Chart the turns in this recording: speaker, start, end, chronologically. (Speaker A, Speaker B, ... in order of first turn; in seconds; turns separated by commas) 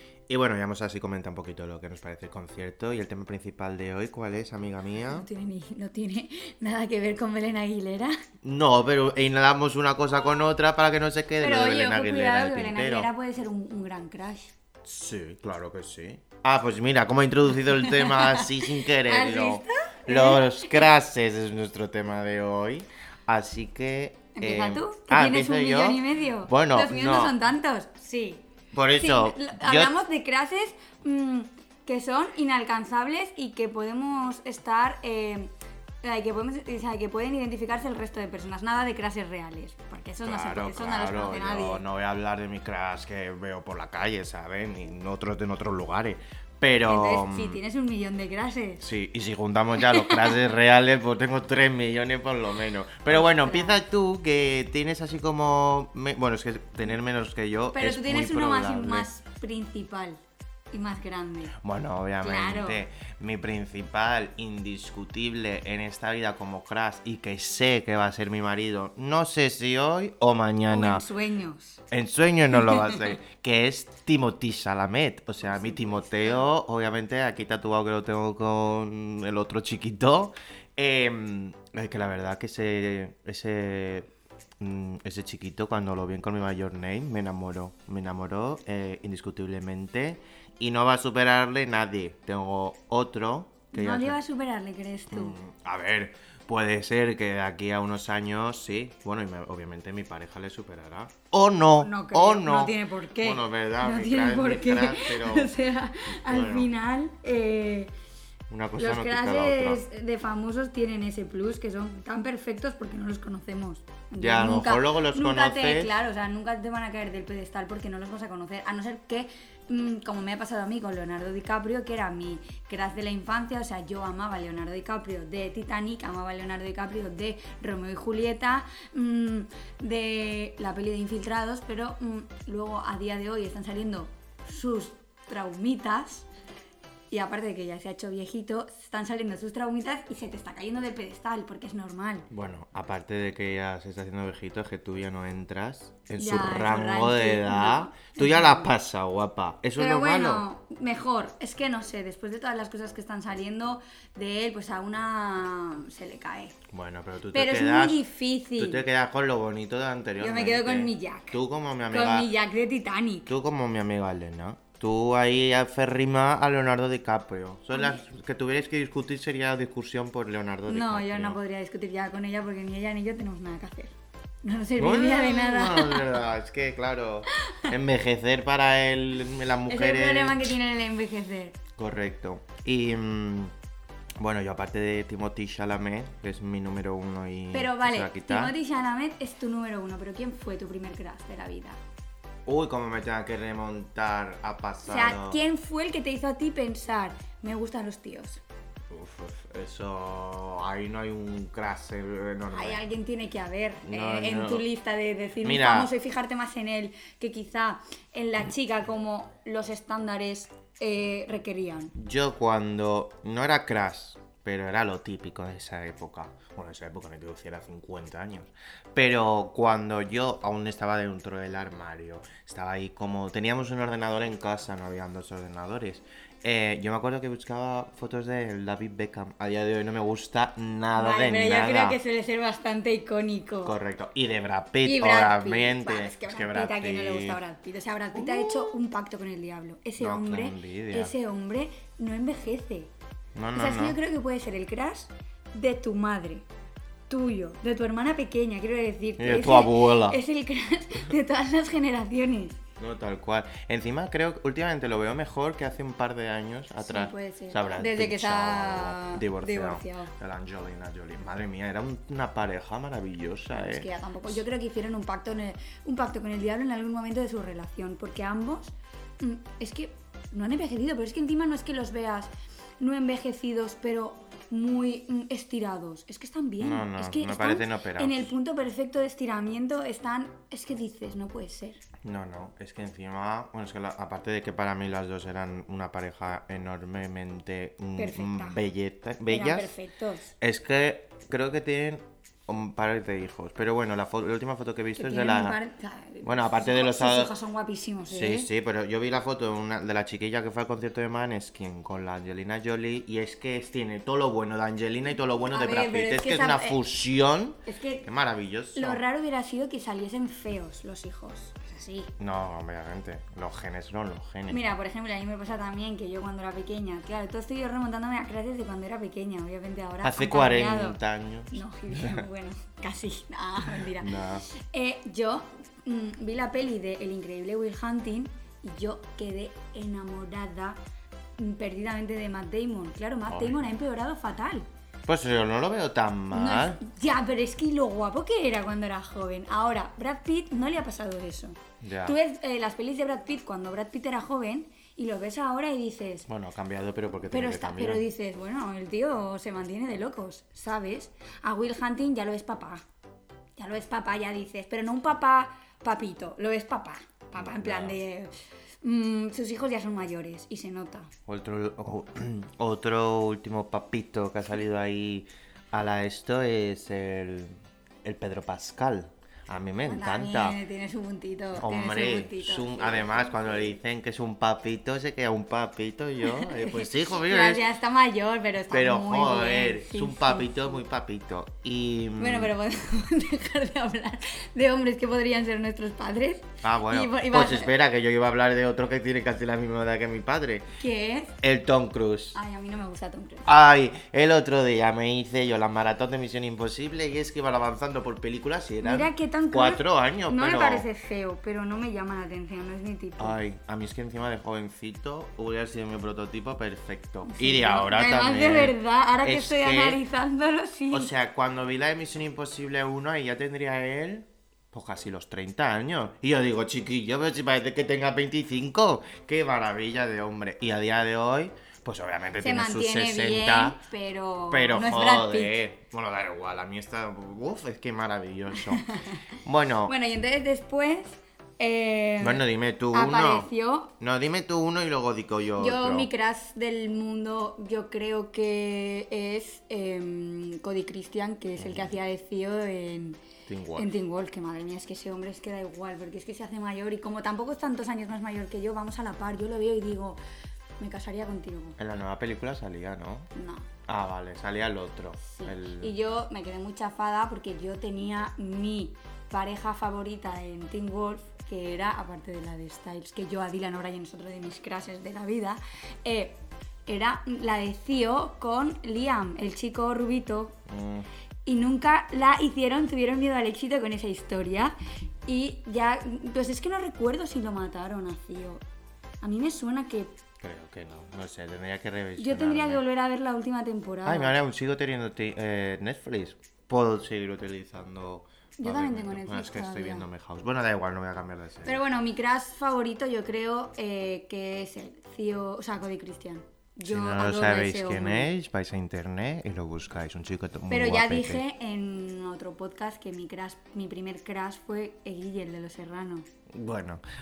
Speaker A: 0.3-5.3, Speaker B: 5.0-8.2, Speaker A: 8.4-13.1, Speaker B: 11.4-14.5, Speaker A: 14.8-27.4, Speaker B: 17.7-20.9, Speaker B: 24.4-35.5, Speaker A: 28.7-29.9, Speaker B: 36.0-41.9, Speaker A: 40.2-47.6, Speaker B: 46.8-48.8, Speaker A: 48.8-59.1, Speaker B: 49.8-50.4, Speaker B: 53.1-53.8, Speaker B: 57.7-60.2, Speaker B: 60.7-61.5, Speaker A: 61.6-71.0, Speaker B: 62.2-62.8, Speaker B: 70.7-71.8, Speaker A: 71.9-84.1, Speaker B: 72.6-73.2, Speaker B: 75.4-76.5, Speaker A: 84.6-94.2, Speaker B: 93.7-95.4, Speaker A: 95.1-105.5, Speaker B: 101.8-107.9, Speaker A: 106.1-106.7, Speaker A: 108.5-109.8, Speaker B: 108.8-136.3, Speaker A: 114.2-115.9, Speaker B: 137.1-142.3, Speaker A: 142.3-150.5, Speaker B: 146.2-148.7, Speaker B: 149.8-156.6, Speaker A: 156.7-158.0, Speaker B: 157.3-158.8, Speaker A: 158.6-162.3, Speaker B: 160.2-161.4, Speaker B: 161.9-163.3, Speaker A: 163.3-171.4, Speaker B: 167.8-168.0, Speaker B: 170.7-176.2, Speaker A: 174.8-180.4, Speaker B: 177.4-177.7, Speaker B: 179.7-181.6, Speaker A: 181.8-183.5, Speaker A: 184.2-188.6, Speaker B: 187.5-191.8, Speaker A: 192.5-195.4, Speaker B: 194.9-198.4, Speaker A: 198.9-202.8, Speaker B: 202.5-211.9, Speaker A: 203.8-204.7, Speaker A: 205.4-205.9, Speaker A: 211.9-232.0, Speaker B: 231.0-233.8, Speaker A: 233.6-237.4, Speaker B: 234.8-242.9, Speaker A: 238.2-238.7, Speaker A: 240.0-241.1, Speaker A: 243.3-244.0, Speaker B: 243.5-246.5, Speaker B: 247.1-252.6, Speaker A: 249.2-250.2, Speaker A: 252.8-263.9, Speaker B: 256.8-260.1, Speaker B: 263.5-281.8, Speaker A: 276.6-278.3, Speaker A: 282.0-289.7, Speaker B: 288.0-288.6, Speaker B: 289.3-290.3, Speaker A: 290.4-295.6, Speaker B: 295.0-298.5, Speaker A: 296.2-297.3, Speaker A: 298.1-309.0, Speaker B: 305.5-306.8, Speaker B: 307.7-308.1, Speaker B: 308.8-312.1, Speaker A: 312.2-314.6, Speaker B: 314.5-321.0, Speaker A: 320.0-322.2, Speaker B: 321.5-330.8, Speaker A: 323.8-324.5, Speaker B: 331.4-334.7, Speaker A: 333.3-333.6, Speaker A: 335.1-336.8, Speaker B: 336.3-346.3, Speaker A: 341.8-342.2, Speaker A: 346.3-348.1, Speaker B: 347.3-352.8, Speaker B: 353.6-361.1, Speaker A: 357.4-358.0, Speaker A: 361.3-370.6, Speaker B: 369.9-373.8, Speaker A: 371.6-377.6, Speaker B: 376.2-380.8, Speaker A: 378.7-382.5, Speaker B: 382.2-387.7, Speaker A: 386.6-390.7, Speaker B: 390.8-391.4, Speaker A: 391.4-392.4, Speaker B: 392.3-393.5, Speaker A: 393.5-400.9, Speaker B: 398.8-403.4, Speaker A: 403.2-410.0, Speaker B: 407.3-411.1, Speaker A: 410.9-423.8, Speaker B: 422.4-425.6, Speaker A: 424.5-430.0, Speaker B: 428.5-429.2, Speaker B: 429.9-433.9, Speaker A: 432.2-433.5, Speaker A: 434.0-436.1, Speaker B: 435.6-443.2, Speaker A: 441.6-441.9, Speaker A: 443.5-443.9, Speaker B: 443.8-450.2, Speaker B: 450.8-451.8, Speaker A: 451.8-453.3, Speaker B: 453.4-453.7, Speaker A: 453.9-455.9, Speaker B: 455.4-470.6, Speaker A: 470.7-471.1, Speaker B: 471.5-478.6, Speaker B: 479.2-480.2, Speaker A: 480.4-482.8, Speaker B: 482.2-484.4, Speaker A: 484.1-491.8, Speaker B: 488.6-490.1, Speaker B: 491.6-498.3, Speaker A: 496.9-501.4, Speaker B: 500.7-506.3, Speaker A: 506.5-507.0